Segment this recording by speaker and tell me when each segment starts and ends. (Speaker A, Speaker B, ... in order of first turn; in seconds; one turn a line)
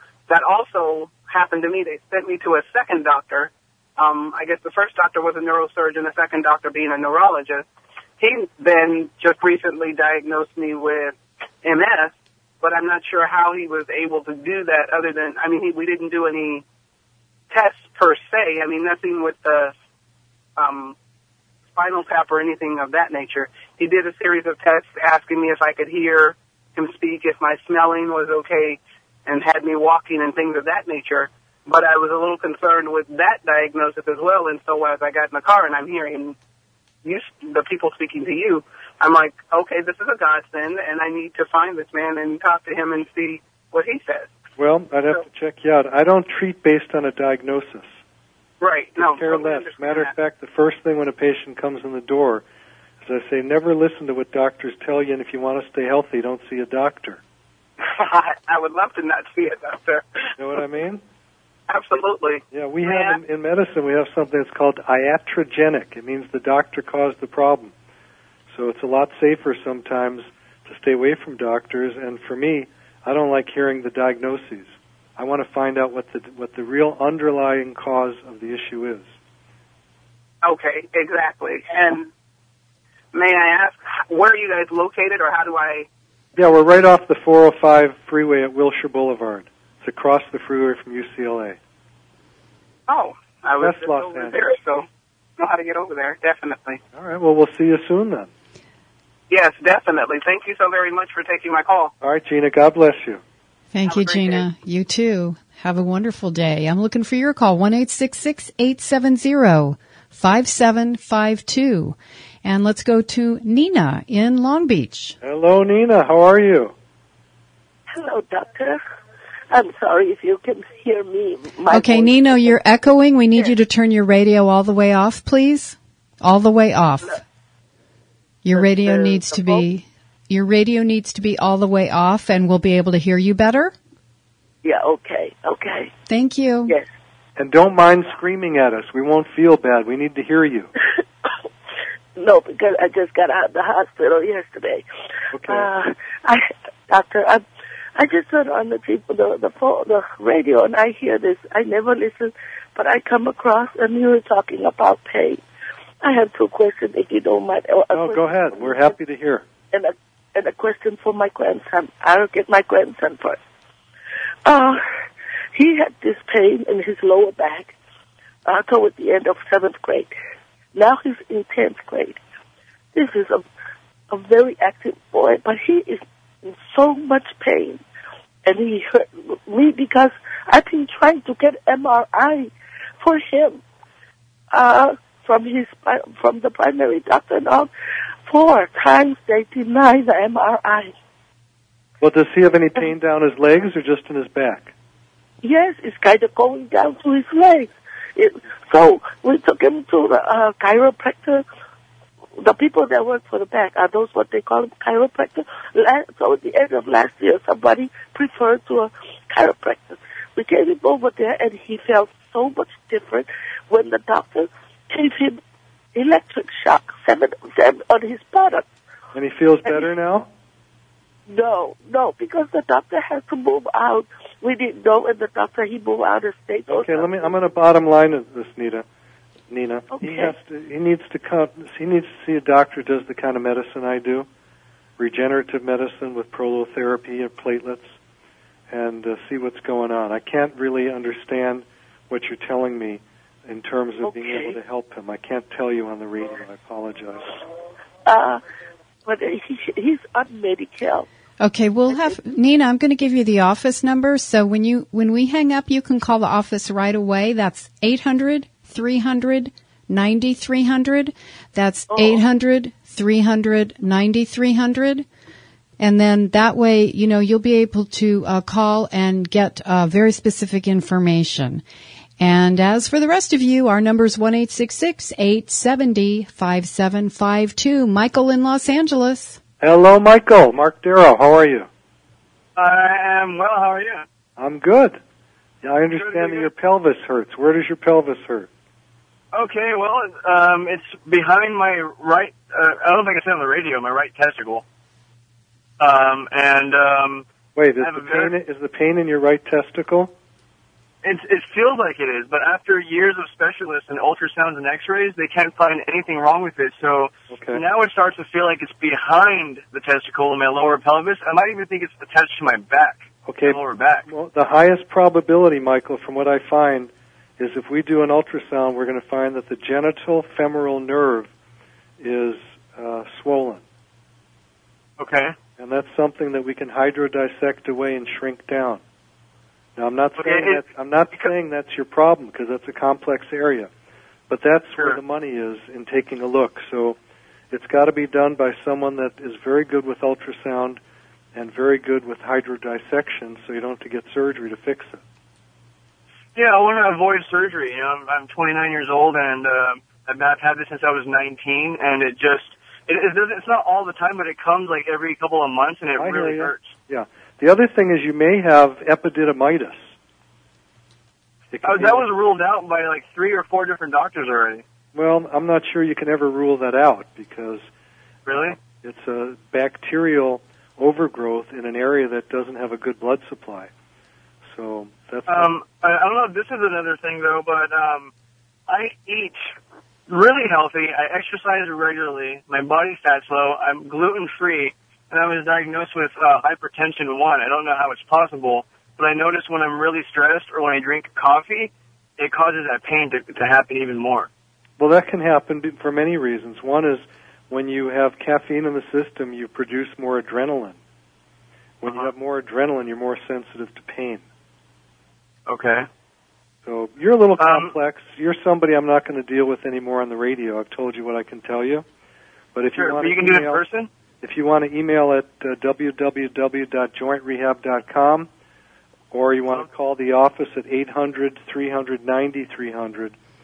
Speaker A: 0.3-7.6
Speaker A: 8.2-16.6
Speaker A: 17.5-19.7
Speaker A: 20.6-20.9
Speaker A: 21.7-36.4
Speaker A: 37.0-44.3
Speaker B: 44.6-48.0
Speaker A: 48.6-50.1
Speaker B: 49.0-52.4
Speaker B: 53.0-57.2
Speaker A: 57.8-60.3
Speaker B: 60.4-61.0
Speaker A: 61.7-63.2
Speaker B: 62.5-67.7
Speaker B: 68.5-79.1
Speaker A: 80.4-82.1
Speaker A: 83.1-85.9
Speaker B: 86.3-91.6
Speaker A: 92.9-94.8
Speaker B: 93.6-94.5
Speaker A: 95.4-96.8
Speaker B: 96.9-98.3
Speaker A: 99.3-101.9
Speaker B: 102.0-103.2
Speaker C: 103.7-115.2
Speaker A: 103.8-104.5
Speaker B: 115.2-116.7
Speaker D: 117.9-118.8
Speaker D: 119.5-122.5
Speaker C: 121.7-127.2
Speaker C: 128.4-133.7
Speaker D: 128.6-129.7
Speaker D: 134.6-135.9
Speaker C: 136.1-136.7
Speaker B: 137.4-140.7
Speaker D: 142.2-144.8
Speaker B: 145.3-145.7
Speaker D: 145.4-147.4
Speaker D: 147.9-155.4
Speaker D: 156.0-158.9
Speaker B: 157.9-159.4
Speaker D: 159.7-163.4
Speaker D: 164.4-164.8
Speaker D: 165.5-167.7
Speaker D: 168.4-170.1
Speaker D: 170.7-172.2
Speaker D: 172.9-173.4
Speaker D: 174.1-177.8
Speaker D: 178.4-183.6
Speaker D: 184.5-187.7
Speaker D: 188.3-190.9
Speaker B: 192.0-194.7
Speaker D: 195.4-201.4
Speaker D: 202.4-215.4
Speaker D: 215.9-218.7
Speaker B: 219.1-220.3
Speaker D: 221.3-227.3
Speaker B: 226.7-228.8
Speaker B: 229.5-234.3
Speaker D: 229.9-230.3
Speaker B: 235.0-237.9
Speaker B: 238.7-247.3
Speaker D: 244.0-244.5
Speaker D: 248.1-248.4
Speaker D: 249.0-251.1
Speaker C: 251.4-265.1
Speaker D: 261.9-262.2
Speaker C: 265.8-271.6
Speaker C: 272.2-279.4
Speaker B: 279.6-281.7
Speaker E: 282.5-284.0
Speaker B: 284.4-285.0
Speaker B: 285.6-288.5
Speaker E: 285.9-286.5
Speaker E: 289.3-294.6
Speaker E: 295.8-297.3
Speaker B: 297.6-300.1
Speaker E: 297.8-298.3
Speaker E: 301.0-314.1
Speaker B: 307.3-307.6
Speaker B: 313.2-321.3
Speaker B: 322.0-323.6
Speaker E: 325.0-325.3
Speaker B: 325.6-328.8
Speaker B: 329.8-333.7
Speaker E: 330.1-330.6
Speaker B: 334.3-337.0
Speaker B: 337.5-340.8
Speaker B: 341.3-345.0
Speaker E: 346.3-356.7
Speaker B: 355.9-359.9
Speaker B: 361.5-362.1
Speaker E: 361.6-364.6
Speaker B: 364.9-367.6
Speaker E: 368.2-368.6
Speaker B: 368.7-373.7
Speaker B: 374.4-375.5
Speaker E: 375.3-378.1
Speaker E: 378.7-379.4
Speaker E: 380.1-394.3
Speaker B: 394.8-400.8
Speaker B: 401.8-404.2
Speaker E: 401.9-402.1
Speaker E: 405.4-405.9
Speaker B: 406.6-411.8
Speaker E: 407.4-407.7
Speaker B: 412.5-413.6
Speaker E: 412.7-413.9
Speaker B: 414.2-418.3
Speaker B: 419.1-423.1